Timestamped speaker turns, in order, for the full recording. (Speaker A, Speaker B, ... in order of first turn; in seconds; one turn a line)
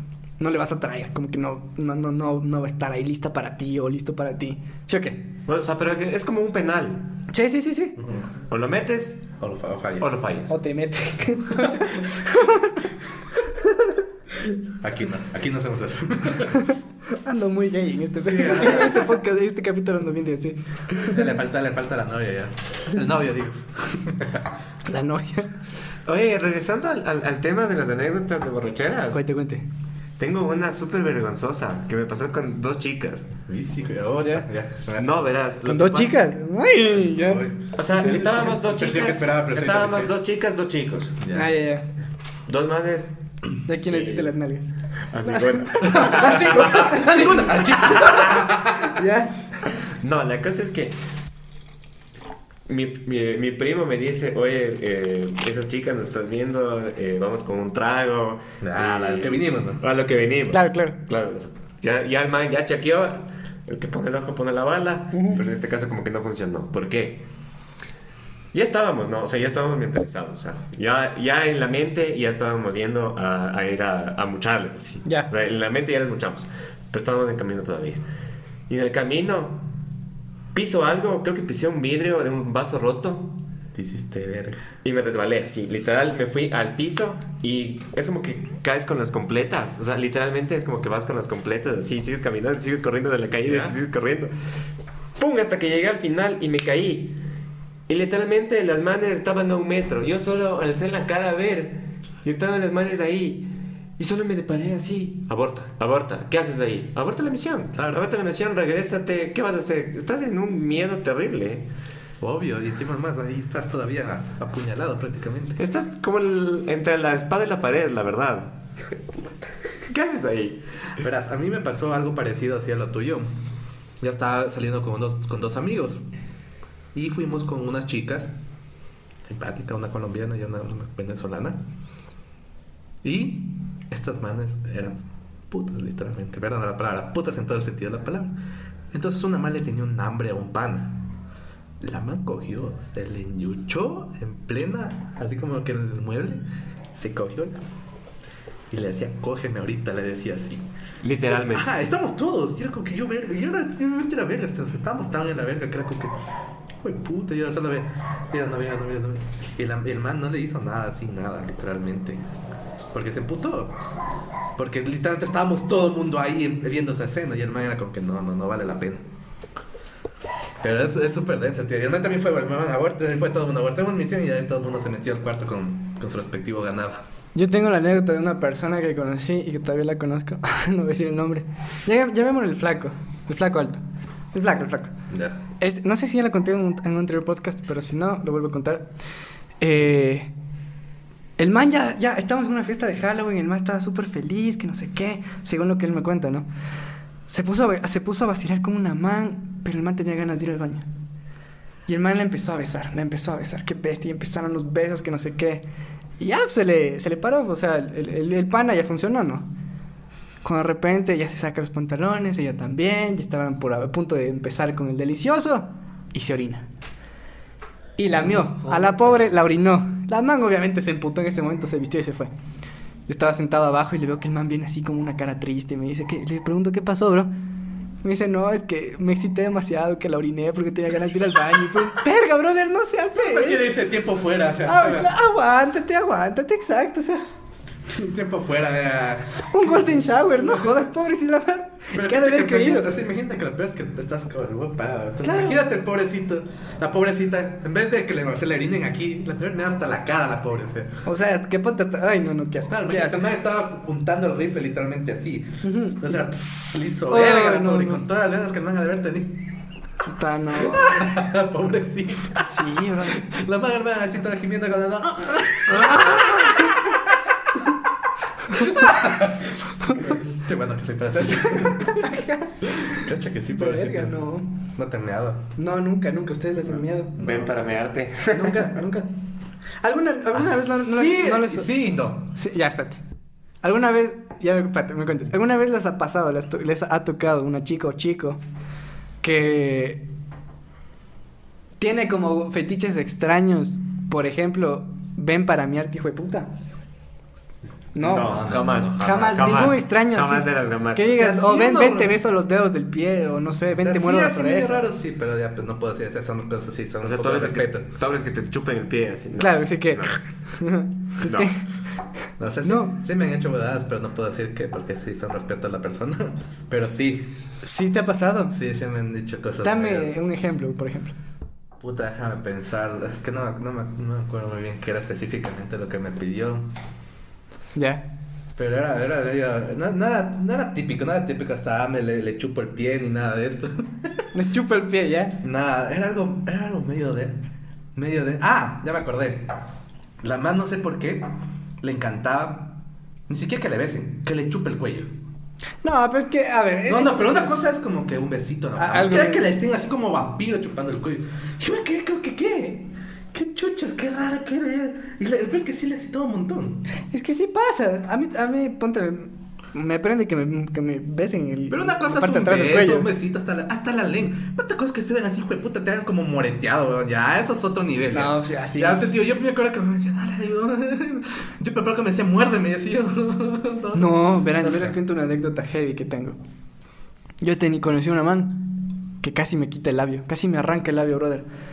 Speaker A: 0.4-5.2
Speaker B: 5.5-7.1
Speaker A: 7.3-8.0
Speaker C: 8.0-8.3
Speaker B: 8.5-9.3
Speaker C: 9.4-10.1
Speaker B: 10.0-10.6
Speaker A: 10.5-12.8
Speaker C: 14.7-16.6
Speaker A: 17.2-21.2
Speaker C: 18.2-19.2
Speaker C: 21.0-24.4
Speaker A: 24.9-25.6
Speaker B: 26.1-29.2
Speaker A: 29.1-29.6
Speaker B: 30.2-33.3
Speaker C: 33.5-35.2
Speaker B: 35.0-36.3
Speaker A: 35.6-37.4
Speaker C: 37.1-40.1
Speaker B: 37.7-41.2
Speaker C: 41.2-41.5
Speaker A: 41.3-41.9
Speaker B: 42.5-44.3
Speaker A: 43.6-44.7
Speaker B: 45.1-47.1
Speaker A: 45.2-47.8
Speaker C: 45.9-49.0
Speaker B: 47.8-48.5
Speaker A: 48.8-49.4
Speaker B: 49.7-51.0
Speaker B: 52.7-67.2
Speaker C: 58.6-59.8
Speaker A: 60.5-61.0
Speaker A: 65.1-65.4
Speaker B: 68.5-78.0
Speaker B: 78.7-79.6
Speaker B: 80.5-83.3
Speaker C: 83.7-84.7
Speaker B: 84.8-94.3
Speaker C: 93.5-93.8
Speaker B: 95.2-97.2
Speaker B: 97.9-111.7
Speaker C: 107.8-108.0
Speaker C: 112.2-115.6
Speaker B: 115.6-118.5
Speaker B: 119.9-120.6
Speaker C: 121.0-123.3
Speaker C: 124.0-126.0
Speaker C: 126.9-128.3
Speaker C: 129.2-131.6
Speaker C: 133.0-138.4
Speaker C: 138.9-141.1
Speaker C: 141.8-146.4
Speaker C: 146.9-147.6
Speaker C: 148.7-150.7
Speaker B: 151.0-151.7
Speaker C: 151.5-156.1
Speaker C: 156.8-162.2
Speaker C: 162.9-163.8
Speaker C: 164.6-169.1
Speaker C: 170.6-177.0
Speaker A: 177.3-183.8
Speaker A: 184.3-184.9
Speaker C: 185.1-185.4
Speaker A: 185.6-188.9
Speaker A: 189.6-190.3
Speaker A: 191.4-196.5
Speaker A: 197.3-200.9
Speaker A: 201.9-205.6
Speaker A: 206.2-209.5
Speaker A: 210.4-216.7
Speaker A: 218.0-222.3
Speaker A: 223.1-227.3
Speaker A: 228.0-233.7
Speaker C: 233.2-235.1
Speaker A: 234.7-237.2
Speaker C: 237.9-240.8
Speaker A: 239.5-242.9
Speaker C: 241.9-251.0
Speaker A: 245.2-245.6
Speaker A: 251.1-253.3
Speaker C: 252.7-259.4
Speaker A: 255.6-258.0
Speaker A: 260.0-261.1
Speaker C: 260.6-262.4
Speaker A: 262.3-263.2
Speaker C: 263.0-267.0
Speaker A: 265.7-266.8
Speaker C: 268.5-274.1
Speaker A: 268.6-268.9
Speaker A: 271.9-272.5
Speaker A: 273.5-274.5
Speaker C: 274.8-275.4
Speaker A: 275.6-277.1
Speaker C: 277.1-277.5
Speaker B: 277.2-278.7
Speaker C: 278.3-279.0
Speaker A: 278.7-279.1
Speaker A: 279.8-281.7
Speaker C: 280.3-282.3
Speaker A: 282.3-283.0
Speaker A: 283.6-288.4
Speaker A: 289.2-290.0
Speaker A: 291.8-296.5
Speaker A: 298.0-304.9
Speaker B: 298.0-301.2
Speaker C: 298.2-299.6
Speaker C: 301.1-302.1
Speaker C: 303.7-307.8
Speaker B: 307.0-310.2
Speaker A: 309.4-311.6
Speaker B: 311.2-311.5
Speaker C: 312.4-317.3
Speaker A: 312.6-313.0
Speaker A: 317.6-318.6
Speaker C: 318.5-320.1
Speaker A: 319.6-321.1
Speaker C: 321.8-326.7
Speaker A: 327.8-328.0
Speaker C: 328.6-334.2
Speaker A: 334.3-335.4
Speaker C: 335.4-339.5
Speaker C: 340.2-341.3
Speaker C: 341.8-342.8
Speaker C: 343.3-345.1
Speaker A: 345.8-347.5
Speaker C: 346.9-356.8
Speaker A: 348.8-349.5
Speaker A: 357.1-363.1
Speaker C: 361.7-374.9
Speaker A: 368.1-369.1
Speaker A: 373.9-376.4
Speaker A: 377.4-381.4